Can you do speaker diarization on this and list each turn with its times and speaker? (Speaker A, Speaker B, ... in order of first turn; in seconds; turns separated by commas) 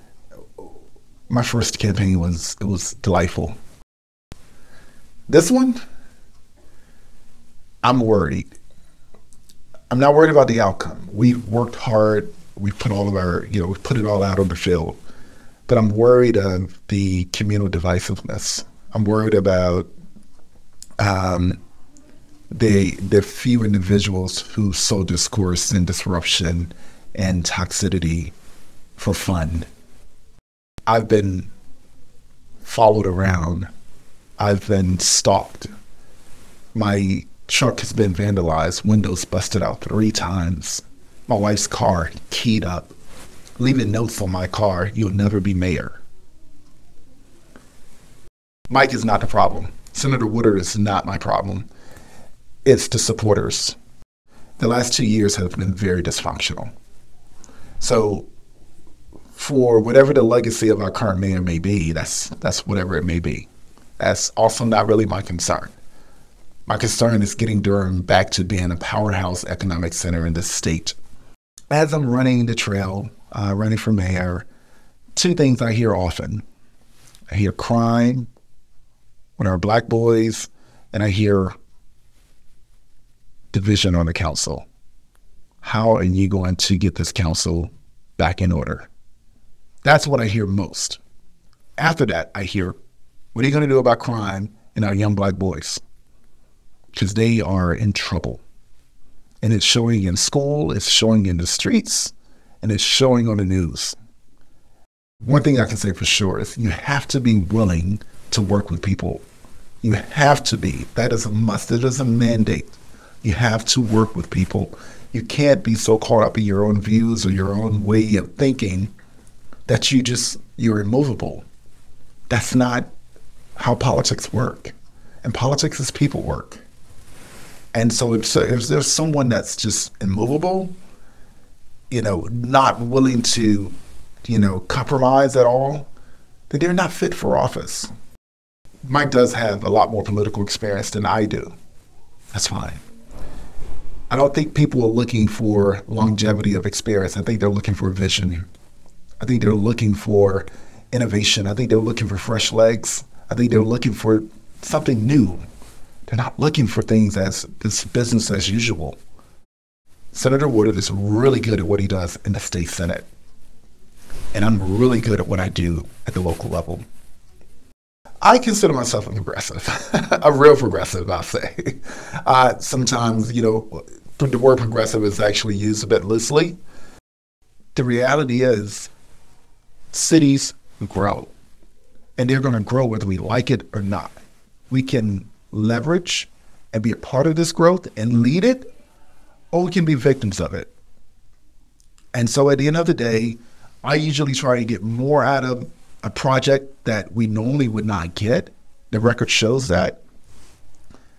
Speaker A: 1.3-3.6, Speaker A: 5.3-5.8, Speaker A: 7.8-8.5, Speaker A: 9.9-15.0, Speaker A: 15.7-19.9, Speaker A: 21.0-21.6, Speaker A: 22.5-28.3, Speaker A: 29.0-29.7, Speaker A: 30.9-31.5, Speaker A: 32.6-33.7, Speaker A: 34.4-35.7, Speaker A: 36.8-42.9, Speaker A: 43.6-46.0, Speaker A: 48.7-51.7, Speaker A: 52.6-53.8, Speaker A: 54.6-56.7, Speaker A: 57.8-58.3, Speaker A: 59.4-65.8, Speaker A: 66.7-71.0, Speaker A: 71.7-74.5, Speaker A: 75.2-76.5, Speaker A: 77.3-78.3, Speaker A: 79.4-81.5, Speaker A: 83.5-84.7, Speaker A: 85.6-88.9, Speaker A: 89.8-91.0, Speaker A: 91.8-92.8, Speaker A: 93.3-95.8, Speaker A: 96.9-98.4, Speaker A: 99.4-104.0, Speaker A: 105.2-109.2, Speaker A: 109.8-118.9, Speaker A: 119.7-121.4, Speaker A: 122.3-122.9, Speaker A: 123.6-124.7, Speaker A: 125.2-126.6, Speaker A: 127.7-130.8, Speaker A: 131.9-135.9, Speaker A: 136.5-137.9, Speaker A: 138.8-141.5, Speaker A: 142.3-142.8, Speaker A: 144.1-148.4, Speaker A: 149.2-155.4, Speaker A: 156.1-159.0, Speaker A: 160.1-163.1, Speaker A: 164.3-166.8, Speaker A: 168.2-176.6, Speaker A: 177.8-178.9, Speaker A: 179.9-181.3, Speaker A: 182.2-184.2, Speaker A: 184.7-188.7, Speaker A: 189.5-190.7, Speaker A: 192.1-200.0